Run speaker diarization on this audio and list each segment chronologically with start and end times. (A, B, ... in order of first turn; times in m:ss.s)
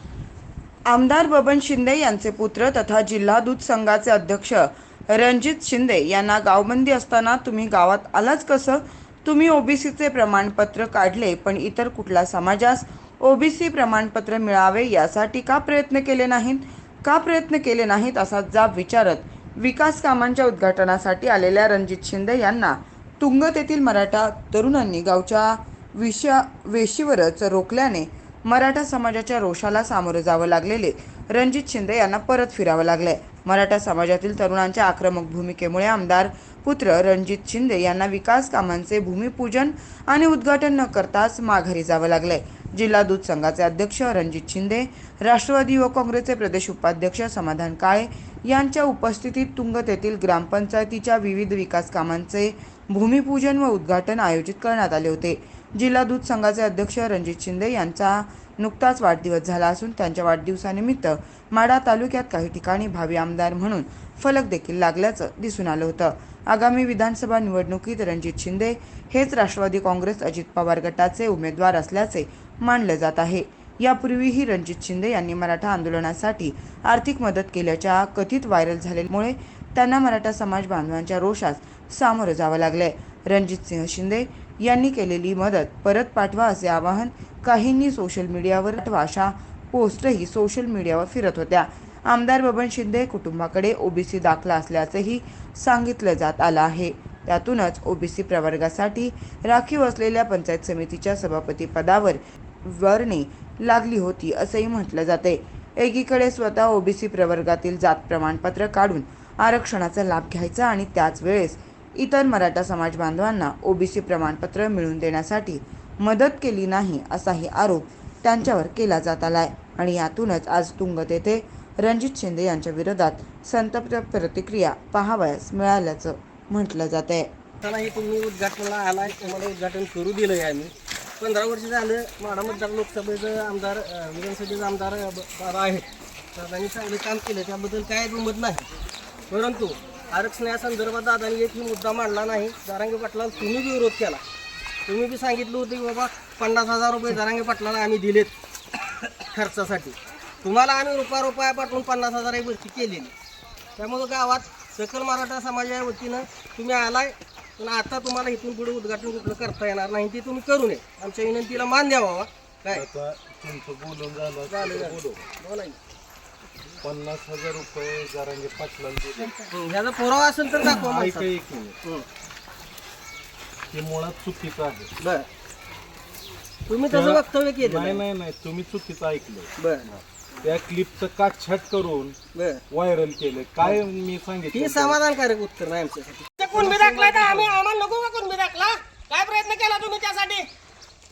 0:00.9-2:07.3 A
2:07.6-2:18.6 B
2:19.3-2:24.2 B
2:24.9-2:28.3 B
2:29.2-2:33.1 B
2:33.8-2:42.8 B
2:42.7-2:45.2 C
2:44.5-2:45.8 B
2:46.8-2:49.5 C
2:49.5-2:51.3 B
2:50.7-2:51.8 C
2:53.7-2:54.9 C
2:55.0-2:55.3 B
2:56.7-2:58.0 B
2:56.9-3:02.2 C
2:59.6-2:59.8 B
3:02.3-3:02.6 B
3:02.7-3:05.0 C
3:04.5-3:10.4 B
3:06.5-3:07.6 C